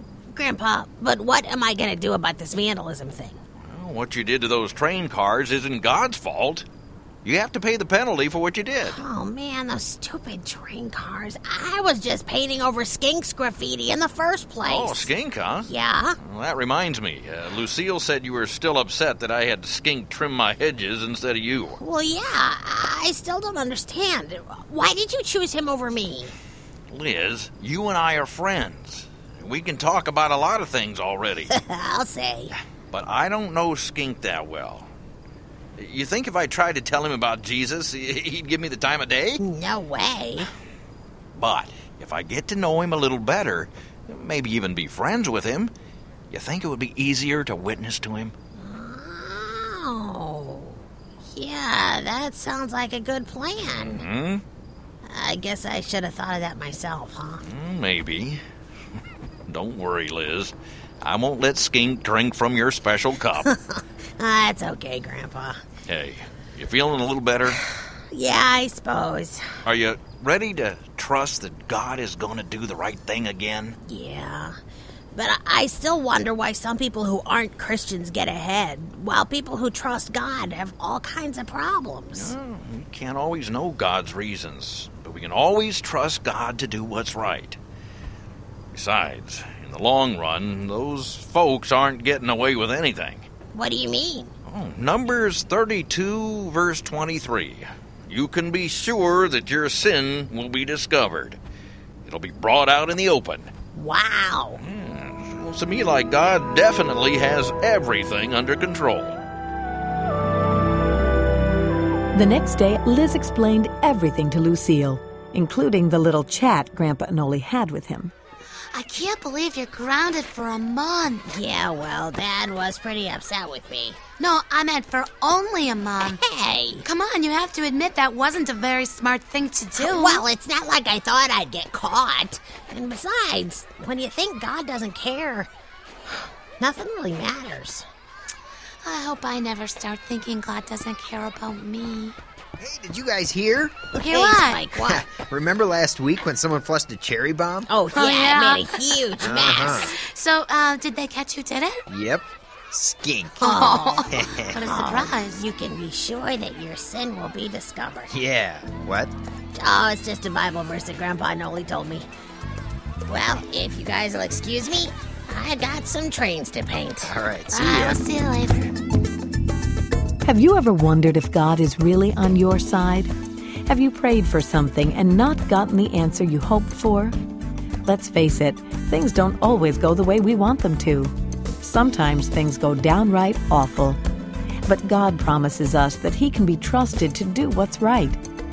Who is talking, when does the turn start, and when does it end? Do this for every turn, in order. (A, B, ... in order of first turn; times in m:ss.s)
0:00.3-0:03.4 A
0:03.6-0:06.6 B
0:07.2-0:09.0 B
0:08.9-0:15.1 A
0:14.6-0:15.7 B
0:15.6-0:16.2 A
0:16.2-0:21.8 B
0:21.8-0:26.3 A
0:26.9-0:31.5 B
0:31.5-0:32.5 A
0:32.9-0:34.9 B
0:35.8-0:39.4 B
0:39.4-0:40.5 A
0:41.3-0:45.7 B
0:46.3-0:48.3 B
0:48.6-0:54.0 A
0:53.6-0:54.4 B
0:55.0-0:57.4 A
0:57.4-0:58.4 B
0:59.5-1:03.5 B
1:04.2-1:05.6 A
1:05.9-1:07.6 B
1:08.1-1:09.5 A
1:09.6-1:13.8 B
1:13.9-1:14.6 A
1:15.1-1:22.3 A
1:22.1-1:27.6 B
1:28.7-1:33.2 B
1:33.5-1:34.3 A
1:34.5-1:41.4 B
1:42.0-1:43.5 B
1:43.7-1:44.6 A
1:44.6-1:49.2 B
1:52.1-1:58.1 C
1:58.7-2:01.3 D
2:01.3-2:04.0 A
2:04.2-2:06.2 D
2:06.0-2:06.8 A
2:06.8-2:10.2 D
2:09.7-2:15.5 A
2:16.1-2:17.8 A
2:18.8-2:22.2 D
2:22.6-2:23.7 E
2:23.9-2:25.0 A
2:24.0-2:24.7 D
2:24.8-2:27.7 E
2:27.7-2:30.0 A
2:27.9-2:31.8 D
2:29.2-2:29.9 E
2:31.9-2:33.6 E
2:33.4-2:38.1 A
2:33.4-2:35.4 D
2:34.1-2:34.6 E
2:38.1-2:39.1 E
2:39.6-2:42.1 A
2:43.1-2:47.1 A
2:47.0-2:48.0 E
2:47.5-2:48.7 D
2:50.2-2:53.1 C
2:53.7-2:57.2 C
2:57.8-3:04.0 C
3:04.6-3:08.2 C